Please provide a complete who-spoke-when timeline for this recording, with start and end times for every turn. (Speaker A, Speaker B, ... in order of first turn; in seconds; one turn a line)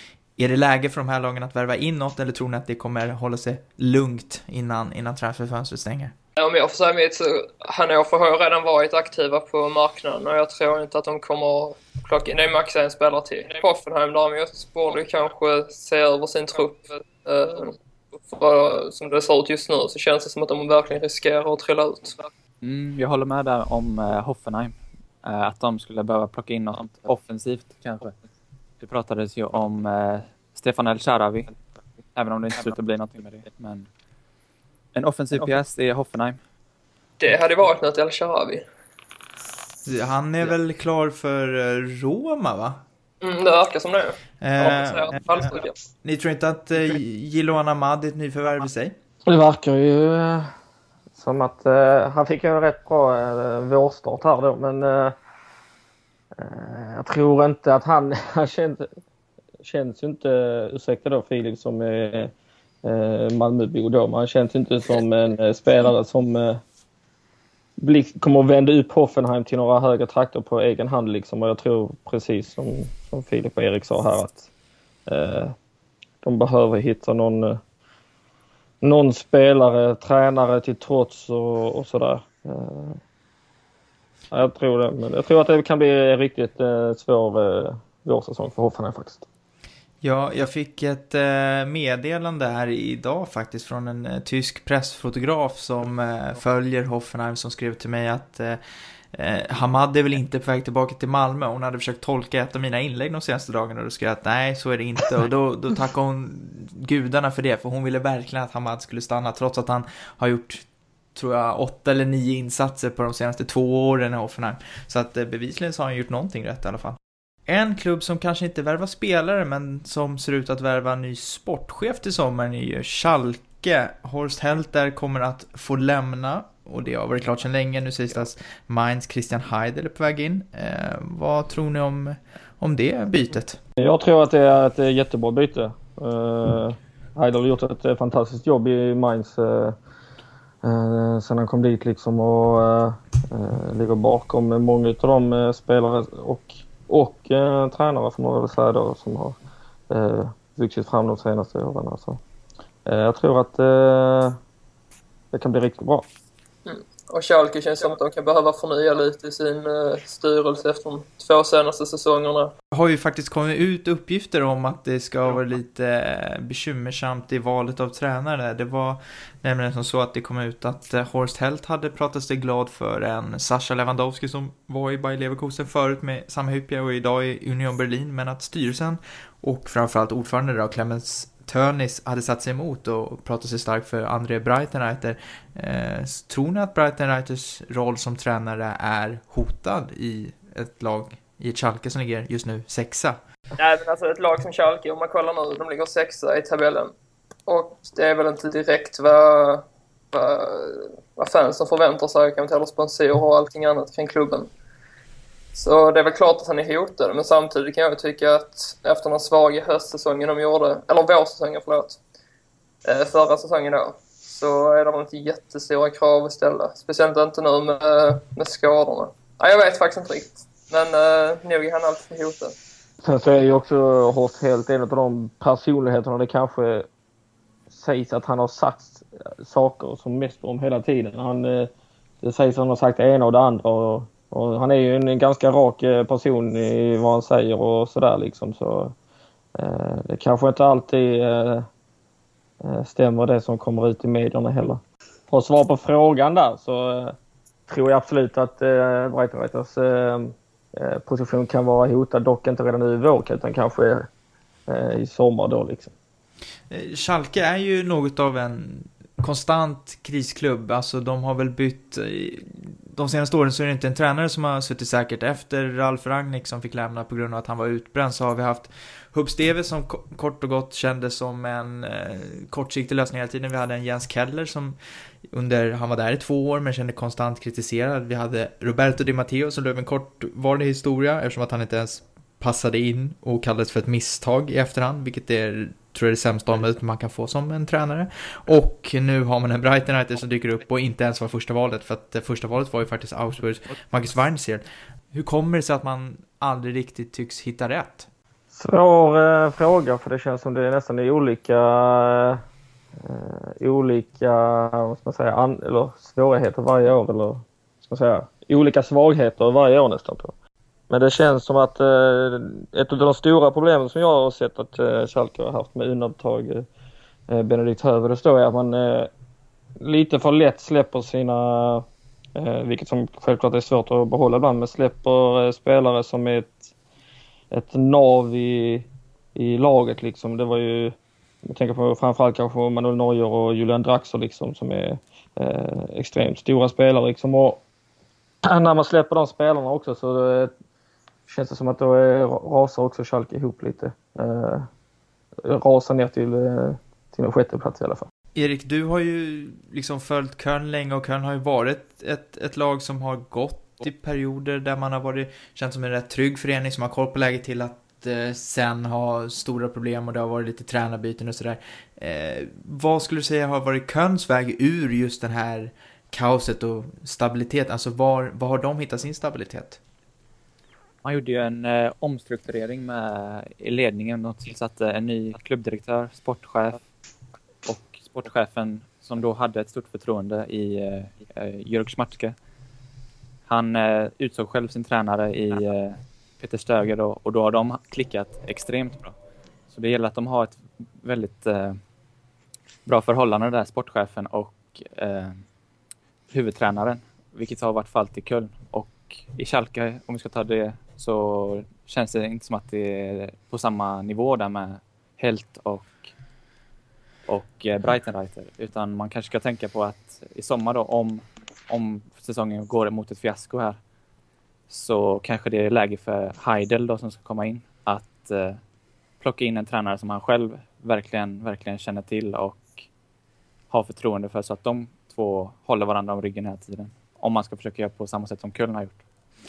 Speaker A: 0.4-6.1
Speaker B: 6.4-22.2
Speaker C: 22.6-28.1
Speaker C: 28.8-31.5
Speaker C: 32.1-33.9
Speaker C: 35.0-36.4
Speaker B: 37.2-38.6
Speaker A: 39.9-42.8
Speaker B: 43.2-45.7
Speaker A: 44.4-45.5
Speaker A: 46.0-49.0
Speaker D: 49.3-50.5
Speaker D: 51.1-55.1
Speaker D: 56.4-58.9
Speaker D: 59.6-62.3
Speaker D: 62.8-66.6
Speaker D: 67.8-74.5
Speaker D: 75.1-75.5
Speaker D: 76.2-77.6
Speaker D: 78.8-83.0
Speaker D: 84.3-89.3
Speaker A: 90.0-98.6
Speaker A: 99.1-133.6
Speaker D: 133.8-139.8
Speaker D: 140.6-149.4
Speaker D: 149.9-152.2
Speaker D: 152.9-154.4
Speaker D: 155.3-156.0
Speaker B: 156.7-162.5
Speaker A: 162.7-193.2
Speaker B: 193.6-196.9
Speaker B: 197.5-204.5
Speaker B: 205.5-212.0
Speaker B: 212.8-222.6
Speaker D: 223.0-226.9
Speaker D: 227.7-231.7
Speaker D: 232.2-238.9
Speaker D: 239.6-241.7
Speaker D: 242.6-247.2
Speaker D: 247.7-254.1
Speaker D: 254.7-255.9
Speaker A: 256.7-274.8
Speaker A: 275.3-298.1
Speaker D: 298.5-302.4
Speaker D: 303.0-310.3
Speaker D: 310.9-316.7
Speaker D: 317.3-319.1
Speaker D: 319.8-326.7
Speaker D: 327.5-337.6
Speaker D: 338.4-340.5
Speaker D: 341.3-344.7
Speaker D: 345.4-348.1
Speaker A: 348.4-369.8
Speaker C: 371.0-376.8
Speaker C: 377.7-382.4
Speaker C: 383.5-389.1
Speaker C: 389.7-391.8
Speaker C: 392.9-395.4
Speaker C: 396.3-406.0
Speaker C: 407.3-413.8
Speaker C: 414.7-418.6
Speaker C: 419.2-422.7
Speaker C: 423.7-429.0